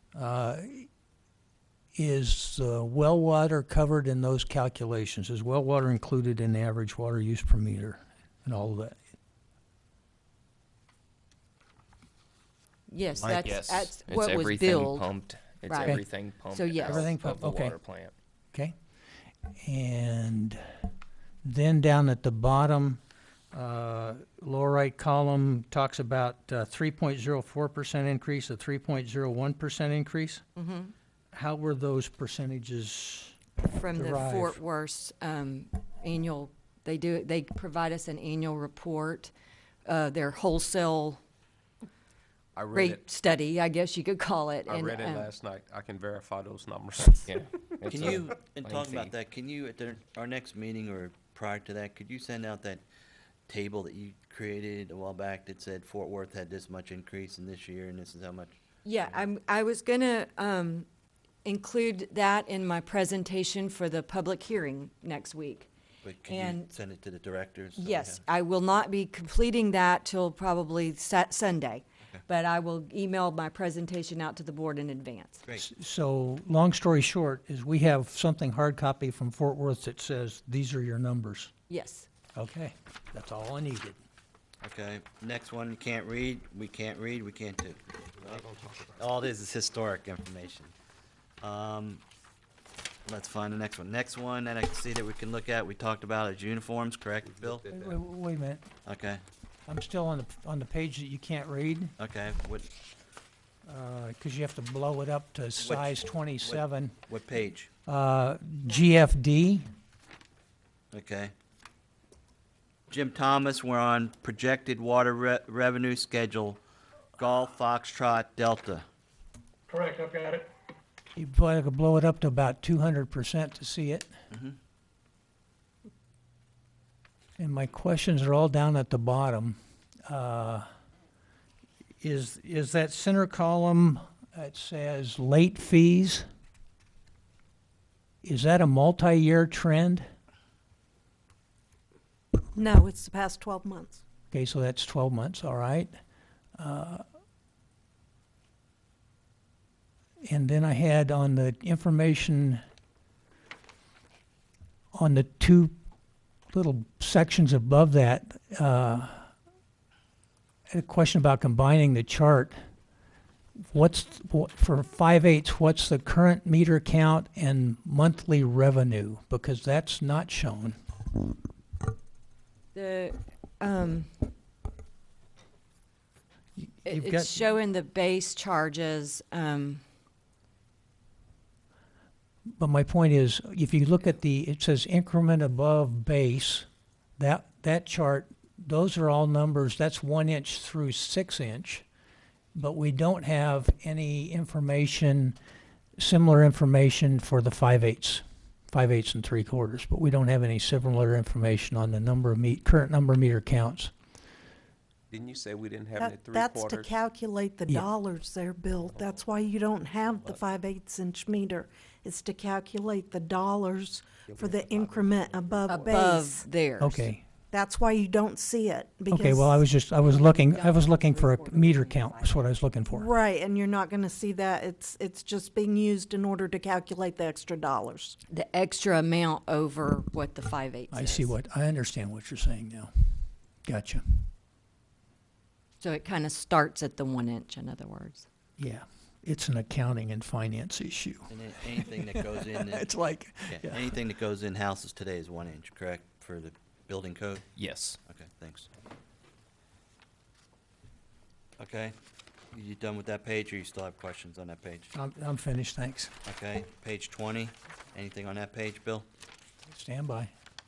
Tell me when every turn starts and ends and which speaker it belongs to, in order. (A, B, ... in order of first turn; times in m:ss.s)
0:00.2-0:00.9 A
0:02.0-0:09.0 A
0:12.9-0:15.1 B
0:13.2-0:18.1 C
0:15.6-0:17.1 B
0:16.8-0:17.8 A
0:19.6-0:20.6 A
0:21.4-0:23.0 A
0:23.5-0:30.4 A
0:30.6-0:30.9 B
0:31.3-0:33.4 A
0:33.6-0:39.3 B
0:33.9-0:34.6 A
0:39.8-0:41.2 B
0:42.6-0:43.0 D
0:42.7-0:45.3 B
0:44.7-0:47.4 D
0:47.3-0:49.2 C
0:47.9-0:52.8 E
0:53.5-0:59.2 E
0:58.8-1:00.9 B
1:01.4-1:05.7 B
1:06.0-1:08.2 E
1:06.3-1:06.7 B
1:07.8-1:15.4 B
1:15.5-1:21.5 A
1:21.7-1:22.1 B
1:22.4-1:24.0 A
1:24.6-1:28.4 E
1:28.2-1:29.0 D
1:29.0-1:30.7 E
1:31.4-1:32.0 E
1:33.1-1:37.6 E
1:37.2-1:38.0 D
1:37.7-1:38.7 A
1:38.8-1:39.2 E
1:39.7-1:42.0 A
1:42.0-1:42.7 E
1:43.7-1:47.0 A
1:45.6-1:47.7 E
1:47.9-1:49.7 A
1:50.9-1:51.3 E
1:52.9-1:56.6 E
1:57.2-1:58.8 E
2:01.2-2:04.1 A
2:04.3-2:04.6 E
2:07.4-2:10.7 A
2:12.0-2:16.3 A
2:18.2-2:20.0 A
2:22.6-2:24.0 F
2:24.3-2:25.9 A
2:26.6-2:27.0 A
2:30.2-2:32.6 A
2:34.9-2:35.7 A
2:36.5-2:39.3 A
2:40.7-2:42.6 A
2:43.7-2:50.8 A
2:52.7-2:54.3 B
2:56.6-2:57.4 A
2:56.8-2:59.8 B
3:02.6-3:06.7 A
3:07.2-3:11.8 A
3:12.6-3:15.4 A
3:16.0-3:23.9 A
3:25.1-3:26.9 D
3:26.0-3:36.5 F
3:28.8-3:29.3 D
3:30.0-3:30.4 D
3:34.2-3:36.0 D
3:35.7-3:37.1 B
3:36.8-3:37.2 A
3:37.5-3:39.6 F
3:39.1-3:43.1 A
3:40.0-3:42.5 B
3:42.9-3:48.2 F
3:48.3-3:51.3 B
3:50.9-3:52.9 A
3:53.7-3:54.3 A
3:55.8-3:58.2 B
3:58.6-4:04.0 A
4:01.3-4:02.8 E
4:03.5-4:07.4 E
4:07.6-4:08.0 C
4:08.1-4:08.7 E
4:11.6-4:12.0 E
4:12.5-4:14.9 E
4:14.9-4:16.2 A
4:16.3-4:19.1 E
4:19.7-4:20.3 A